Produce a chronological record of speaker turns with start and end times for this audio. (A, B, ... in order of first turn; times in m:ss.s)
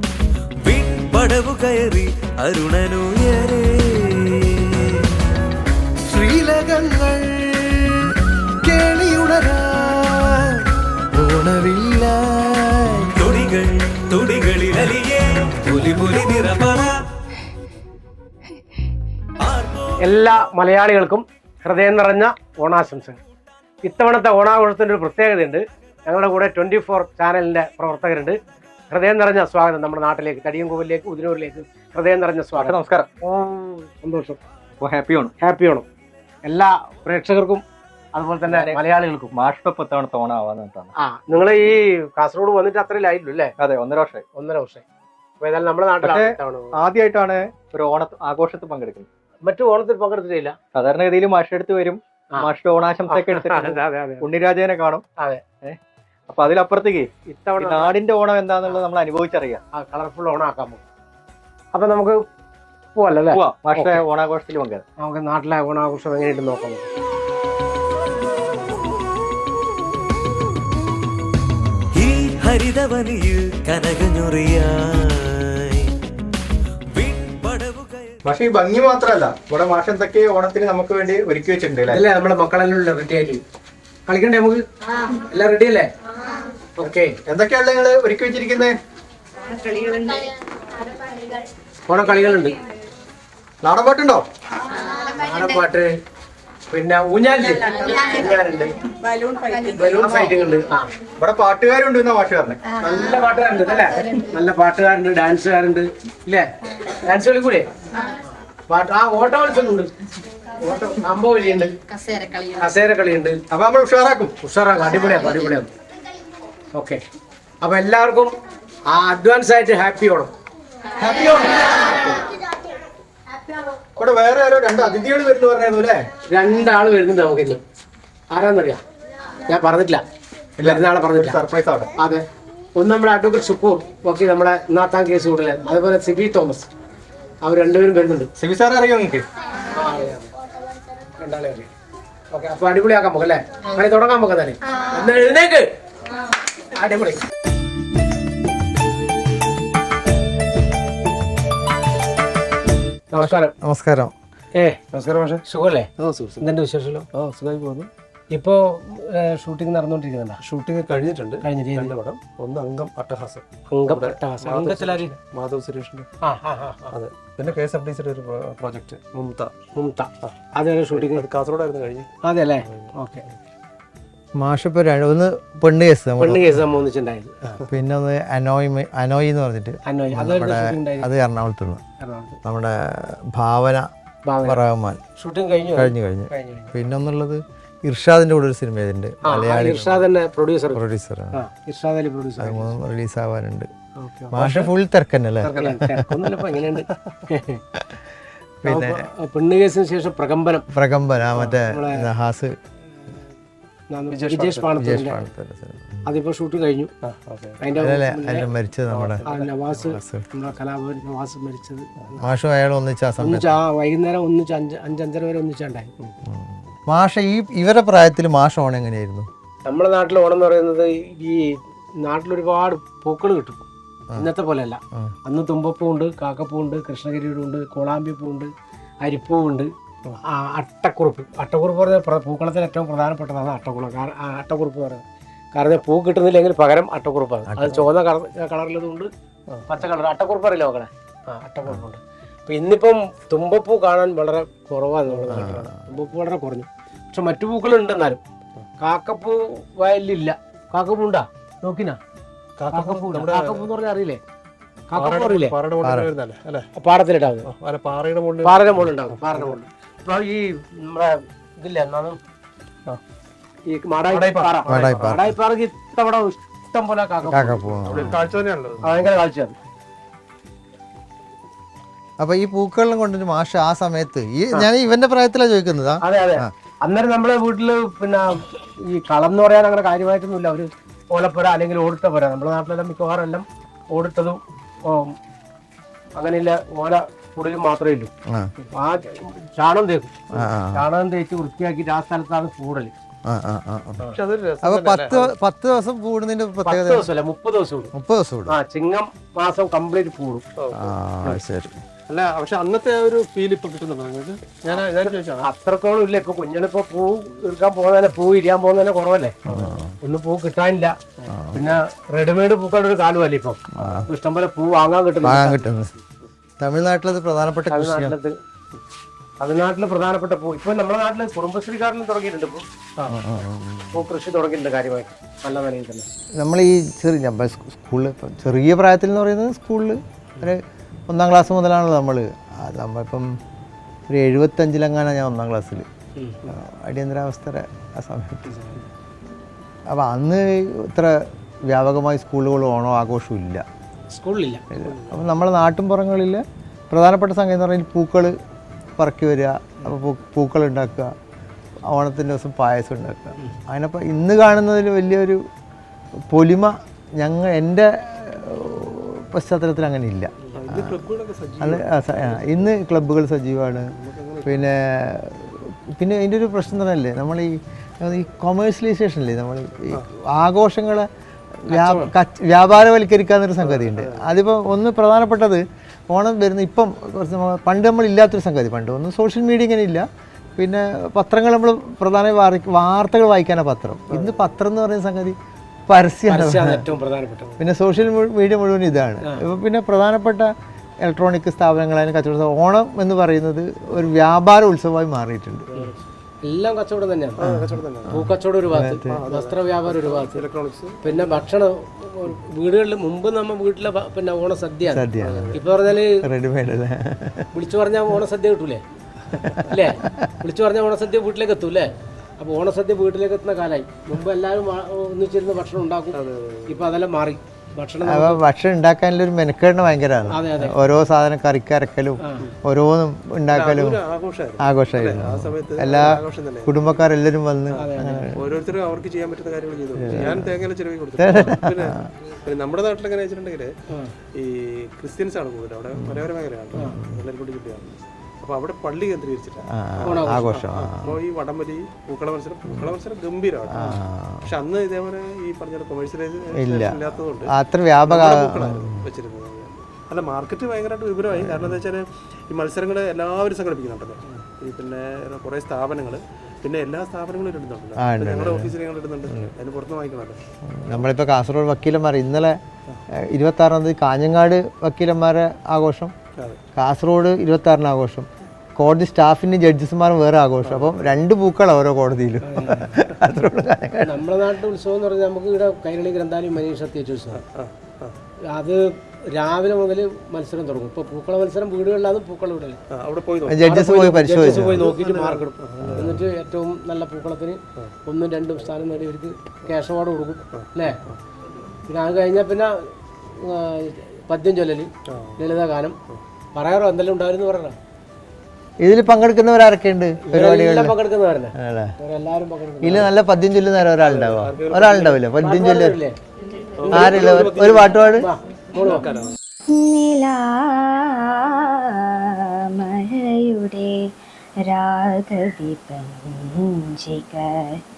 0:00.6-0:05.0 A
0:06.2-0:06.7 B
0:06.3-0:06.8 A
0:08.7-0:09.7 B
0:11.2-0:12.6 B
0:13.0-0:16.9 A
0:19.4-0:19.9 A
0:20.0-0:23.2 C
0:23.8-0:28.4 C
0:28.9-0:34.4 C
0:32.7-0:33.1 D
0:34.8-0:35.3 D
0:35.4-0:35.8 C
0:36.4-0:37.6 C
0:38.1-0:39.3 C
0:39.4-0:40.9 D
0:41.0-0:43.5 C
0:43.6-0:44.2 D
0:44.4-0:44.8 C
0:45.4-0:46.7 C
0:46.8-0:49.0 D
0:49.4-0:50.6 C
0:50.7-0:53.7 D
0:53.0-0:54.2 C
0:54.3-0:55.0 D
0:56.3-0:57.1 D
0:57.2-0:58.0 C
0:57.6-0:59.6 D
0:59.7-1:00.8 C
1:01.7-1:02.2 C
1:03.0-1:04.0 C
1:03.3-1:04.8 D
1:05.0-1:06.9 C
1:11.9-1:15.9 A
1:16.9-1:18.1 A
1:18.2-1:22.0 D
1:21.8-1:23.4 C
1:24.0-1:25.9 C
1:26.8-1:27.2 C
1:27.3-1:28.8 D
1:31.9-1:32.5 C
1:33.6-1:34.2 D
1:35.0-1:35.9 C
1:36.7-1:38.7 C
1:39.5-1:40.9 C
1:41.2-1:42.6 D
1:42.8-1:47.7 C
1:48.3-1:49.9 C
1:50.6-1:51.8 C
1:52.5-1:53.4 C
1:53.5-1:54.3 D
1:54.4-1:55.7 C
1:56.7-1:57.0 C
1:57.6-1:58.3 C
1:58.9-2:00.3 C
2:01.0-2:01.6 D
2:04.0-2:06.0 D
2:06.3-2:07.6 C
2:08.3-2:08.8 C
2:09.5-2:10.0 C
2:10.6-2:11.4 C
2:10.6-2:11.9 D
2:12.0-2:16.7 C
2:17.4-2:18.3 C
2:18.4-2:19.2 D
2:19.7-2:20.3 C
2:21.2-2:21.7 C
2:22.3-2:25.7 C
2:26.7-2:27.2 C
2:33.1-2:33.5 C
2:33.2-2:34.1 B
2:34.5-2:35.9 C
2:35.0-2:35.4 E
2:36.0-2:36.5 E
2:36.4-2:37.1 C
2:37.1-2:37.9 E
2:38.3-2:40.4 C
2:40.4-2:46.1 E
2:41.0-2:41.9 C
2:43.7-2:45.1 C
2:46.2-2:46.9 C
2:46.9-2:49.5 E
2:49.7-2:51.2 C
2:50.9-2:52.1 E
2:52.2-2:53.2 C
2:52.6-2:53.3 E
2:54.4-2:56.4 B
2:56.2-2:57.4 C
2:57.7-3:01.8 B
2:59.8-3:01.1 C
3:02.0-3:02.4 C
3:02.4-3:03.9 B
3:04.2-3:04.6 C
3:04.4-3:05.0 B
3:05.2-3:06.7 C
3:05.8-3:10.0 B
3:09.2-3:12.7 C
3:10.7-3:11.4 B
3:12.4-3:13.7 B
3:14.0-3:14.7 C
3:14.3-3:16.2 B
3:15.4-3:17.6 C
3:16.9-3:17.2 E
3:17.7-3:18.0 B
3:18.6-3:19.0 B
3:18.6-3:20.6 C
3:20.7-3:22.5 B
3:21.3-3:22.1 C
3:23.9-3:25.2 C
3:24.1-3:24.7 E
3:24.8-3:26.1 B
3:26.0-3:26.9 C
3:27.0-3:27.6 E
3:27.6-3:28.5 C
3:27.8-3:30.2 B
3:28.8-3:29.4 E
3:29.2-3:32.1 C
3:32.2-3:33.5 B
3:33.2-3:35.9 C
3:36.2-3:39.3 B
3:39.6-3:43.6 C
3:44.1-3:48.5 C
3:49.0-3:49.7 C
3:50.3-3:55.0 C
3:55.5-3:59.1 C
3:57.5-3:57.8 B
3:59.7-4:08.2 C
4:05.3-4:05.7 B
4:08.8-4:12.0 C
4:12.6-4:13.7 E
4:12.7-4:14.2 C
4:14.9-4:15.6 C
4:15.0-4:16.6 E
4:15.8-4:16.1 B
4:16.7-4:17.5 C
4:17.4-4:19.5 E
4:18.4-4:22.2 C
4:23.7-4:28.0 C
4:24.1-4:25.2 E
4:24.7-4:25.3 B
4:27.3-4:28.3 B
4:27.8-4:28.8 E
4:28.8-4:29.5 C
4:32.2-4:36.5 B
4:36.0-4:45.1 C
4:46.2-4:48.1 C
4:48.7-4:52.9 C
4:50.3-4:50.8 B
4:53.2-4:54.0 B
4:54.1-4:55.3 E
4:54.6-4:57.1 B
4:56.6-4:57.9 C
4:57.9-4:58.6 B
4:58.5-5:00.4 C
5:00.6-5:00.9 E
5:00.7-5:01.8 B
5:02.1-5:05.4 E
5:05.4-5:09.4 C
5:09.4-5:09.9 B
5:10.0-5:11.0 C
5:11.3-5:11.7 B
5:11.5-5:15.7 C
5:13.7-5:14.1 B
5:15.2-5:15.9 B
5:16.6-5:18.2 B
5:17.7-5:18.4 C
5:19.4-5:23.2 C
5:23.1-5:24.1 B
5:23.9-5:26.0 C
5:26.4-5:33.3 B
5:34.1-5:35.8 B
5:36.2-5:36.5 C
5:36.5-5:38.6 B
5:38.4-5:38.8 C
5:39.9-5:41.1 B
5:41.7-5:43.6 B
5:44.1-5:44.6 C
5:44.7-5:48.3 B
5:44.8-5:45.2 E
5:49.0-5:51.1 B
5:51.9-5:55.4 B
5:56.3-6:01.0 B
6:00.5-6:02.7 E
6:01.6-6:03.9 B
6:04.0-6:04.7 E
6:04.4-6:11.1 B
6:11.7-6:12.1 C
6:11.7-6:20.0 B
6:13.6-6:14.4 E
6:20.6-6:25.4 B
6:24.1-6:24.5 E
6:25.9-6:26.8 B
6:26.3-6:27.5 C
6:27.6-6:30.5 B
6:31.0-6:35.7 B
6:35.7-6:37.4 C
6:37.4-6:38.2 E
6:37.4-6:39.2 B
6:38.1-6:40.4 C
6:39.1-6:41.4 E
6:41.0-6:46.2 C
6:44.9-6:45.6 B
6:45.2-6:45.6 E
6:46.1-6:47.5 B
6:47.5-6:48.8 C
6:49.4-6:50.3 B
6:49.6-6:58.4 C
6:56.1-6:56.8 E
6:58.0-7:04.0 B
7:00.3-7:00.8 C
7:03.5-7:06.7 E
7:04.6-7:08.4 B
7:07.8-7:08.3 C
7:08.4-7:13.7 E
7:10.0-7:10.5 B
7:11.2-7:12.0 B
7:14.3-7:23.9 E
7:16.0-7:17.2 B
7:19.7-7:21.2 B
7:20.0-7:20.4 C
7:23.7-7:24.4 B
7:24.4-7:27.5 E
7:26.6-7:29.1 B
7:28.0-7:40.4 E
7:31.3-7:31.8 B
7:38.0-7:38.8 B
7:39.3-7:39.5 B
7:40.7-7:42.6 B
7:43.2-7:46.1 B
7:46.8-7:54.2 B
7:50.6-7:51.0 E
7:52.4-7:53.0 C
7:54.0-7:57.4 C
7:57.3-7:58.2 E
7:58.5-8:02.8 C
8:02.9-8:03.6 E
8:03.5-8:04.9 B
8:03.6-8:11.0 C
8:04.5-8:06.2 E
8:05.8-8:06.2 B
8:10.5-8:11.2 E
8:11.9-8:16.0 C
8:15.1-8:15.4 E
8:16.5-8:17.8 C
8:18.8-8:20.9 B
8:20.3-8:23.1 C
8:21.6-8:21.9 B
8:22.8-8:26.0 B
8:24.0-8:25.2 E
8:25.4-8:26.2 C
8:26.8-8:28.0 E
8:26.9-8:27.2 C
8:26.9-8:28.3 B
8:28.1-8:29.1 C
8:28.8-8:29.4 E
8:29.7-8:34.0 F
8:34.7-8:37.8 F